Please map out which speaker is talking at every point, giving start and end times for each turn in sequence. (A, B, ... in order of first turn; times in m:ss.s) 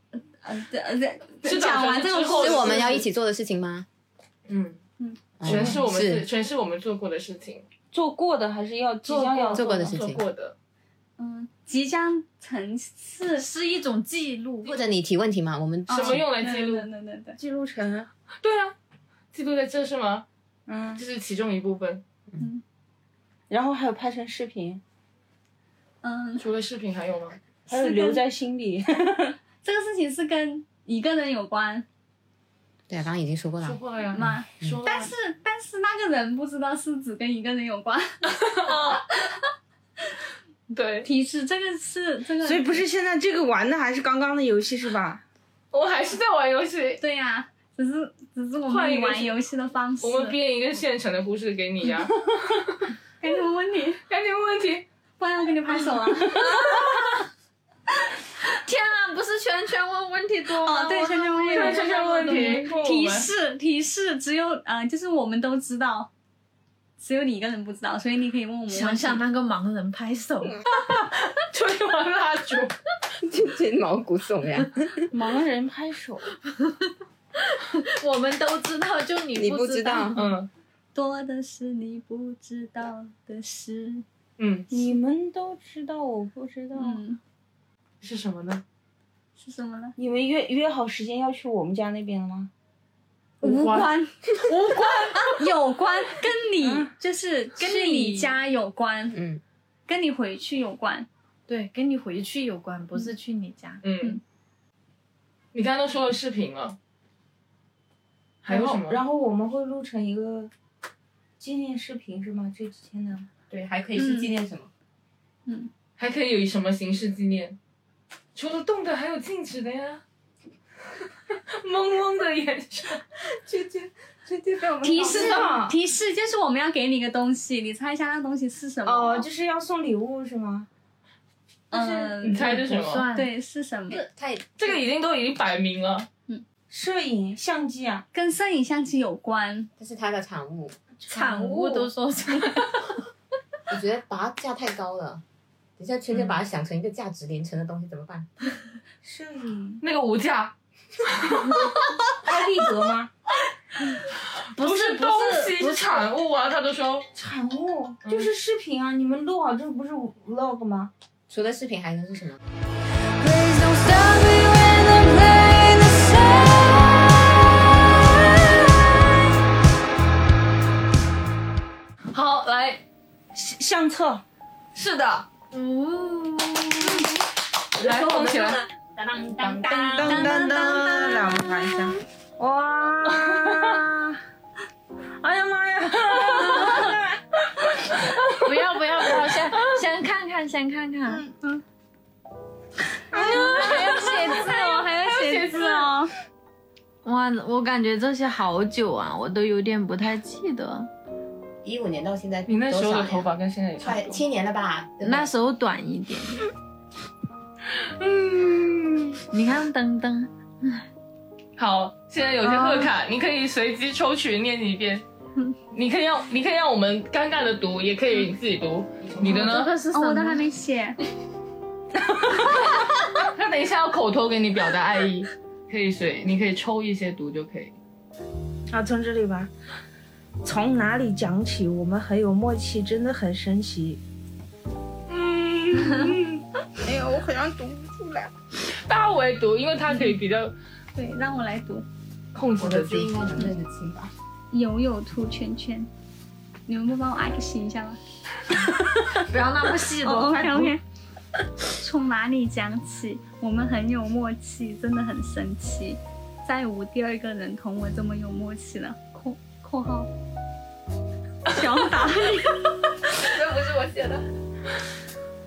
0:00.2-0:03.0 A
0:01.4-0:03.0 B
0:02.3-0:03.9 C
0:04.5-0:04.8 B
0:05.4-0:06.2 C
0:05.4-0:07.6 B
0:07.9-0:09.9 D
0:09.0-0:10.5 B
0:09.5-0:10.2 C
0:11.2-0:13.4 A
0:13.3-0:14.8 E
0:14.6-0:16.3 C
0:15.9-0:17.4 A
0:15.9-0:16.9 B
0:17.4-0:18.1 D
0:18.4-0:18.7 B
0:19.3-0:20.2 B
0:20.7-0:21.0 D
0:20.9-0:22.0 B
0:23.5-0:24.8 D
0:26.0-0:26.4 A
0:26.4-0:27.4 B
0:27.7-0:29.4 D
0:27.7-0:28.2 A
0:29.6-0:31.9 A
0:32.9-0:33.8 C
0:33.6-0:35.1 B
0:34.1-0:39.3 A
0:38.4-0:39.0 B
0:40.7-0:41.1 B
0:41.0-0:42.8 A
0:42.4-0:45.2 D
0:45.7-0:47.0 B
0:47.0-0:50.4 A
0:48.7-0:49.4 B
0:50.0-0:52.9 B
0:53.2-0:54.0 A
0:54.1-0:54.8 B
0:55.2-0:56.5 A
0:56.3-0:57.0 B
0:56.4-0:57.0 E
0:58.4-1:02.7 E
1:00.5-1:06.1 A
1:01.5-1:03.3 D
1:01.6-1:02.6 B
1:07.0-1:09.2 A
1:08.7-1:10.6 E
1:11.0-1:12.7 B
1:13.2-1:15.1 C
1:15.1-1:16.3 D
1:16.6-1:20.2 E
1:19.3-1:20.2 C
1:20.1-1:20.5 B
1:20.9-1:24.0 A
1:24.4-1:24.7 B
1:24.7-1:27.0 D
1:26.7-1:27.2 A
1:28.0-1:28.6 B
1:29.4-1:30.0 A
1:30.0-1:32.5 D
1:33.4-1:39.2 A
1:33.4-1:33.9 B
1:34.5-1:35.2 E
1:36.6-1:36.9 D
1:37.6-1:38.4 E
1:39.1-1:39.4 C
1:39.9-1:41.1 A
1:41.5-1:43.8 E
1:43.8-1:44.2 B
1:45.5-1:46.8 B
1:48.4-1:49.0 B
1:48.5-1:50.5 D
1:51.4-1:53.3 D
1:53.5-1:54.7 C
1:54.0-1:54.3 A
1:56.0-1:57.6 B
1:58.3-2:00.0 B
2:01.3-2:03.0 B
2:03.3-2:05.8 D
2:04.8-2:09.3 A
2:08.8-2:10.7 D
2:11.7-2:12.6 D
2:11.7-2:14.0 A
2:12.2-2:13.1 B
2:12.4-2:13.3 E
2:13.9-2:14.7 C
2:14.6-2:16.1 B
2:16.7-2:18.0 D
2:18.1-2:19.7 A
2:19.8-2:20.8 C
2:21.0-2:21.9 D
2:21.1-2:23.0 E
2:23.7-2:25.2 C
2:25.8-2:28.3 C
2:29.0-2:29.8 D
2:29.8-2:30.5 B
2:31.0-2:31.9 B
2:32.2-2:33.1 D
2:34.3-2:37.1 B
2:34.6-2:36.0 E
2:37.1-2:40.9 D
2:38.0-2:38.3 B
2:41.3-2:42.4 C
2:42.9-2:49.0 F
2:52.1-2:52.8 B
2:53.3-2:54.2 D
2:54.7-2:55.3 B
2:55.5-2:56.5 E
2:56.5-2:57.1 B
2:57.8-2:58.6 B
2:57.8-2:58.3 D
2:59.0-3:00.4 C
2:59.4-3:01.7 A
2:59.6-3:04.2 D
3:03.2-3:03.8 B
3:05.2-3:07.2 D
3:06.2-3:06.8 B
3:08.2-3:08.5 B
3:08.4-3:11.2 E
3:13.1-3:14.4 D
3:13.1-3:16.1 A
3:13.4-3:15.9 B
3:13.6-3:14.5 E
3:17.0-3:20.9 E
3:21.6-3:25.3 C
3:22.5-3:24.2 B
3:25.0-3:26.5 E
3:27.8-3:29.2 B
3:29.3-3:30.8 E
3:31.6-3:35.0 B
3:32.4-3:32.9 E
3:35.7-3:39.7 B
3:39.2-3:40.4 E
3:39.9-3:41.0 A
3:42.3-3:47.7 B
3:48.7-3:49.5 D
3:50.4-3:54.0 D
3:55.1-3:56.4 B
3:56.8-3:58.3 D
3:58.7-4:00.5 B
4:00.9-4:01.8 A
4:02.3-4:03.3 B
4:02.6-4:04.1 C
4:04.5-4:05.9 A
4:06.7-4:08.0 A
4:09.1-4:10.7 E
4:10.0-4:10.8 A
4:11.7-4:20.1 A
4:21.5-4:22.7 A
4:23.2-4:24.2 B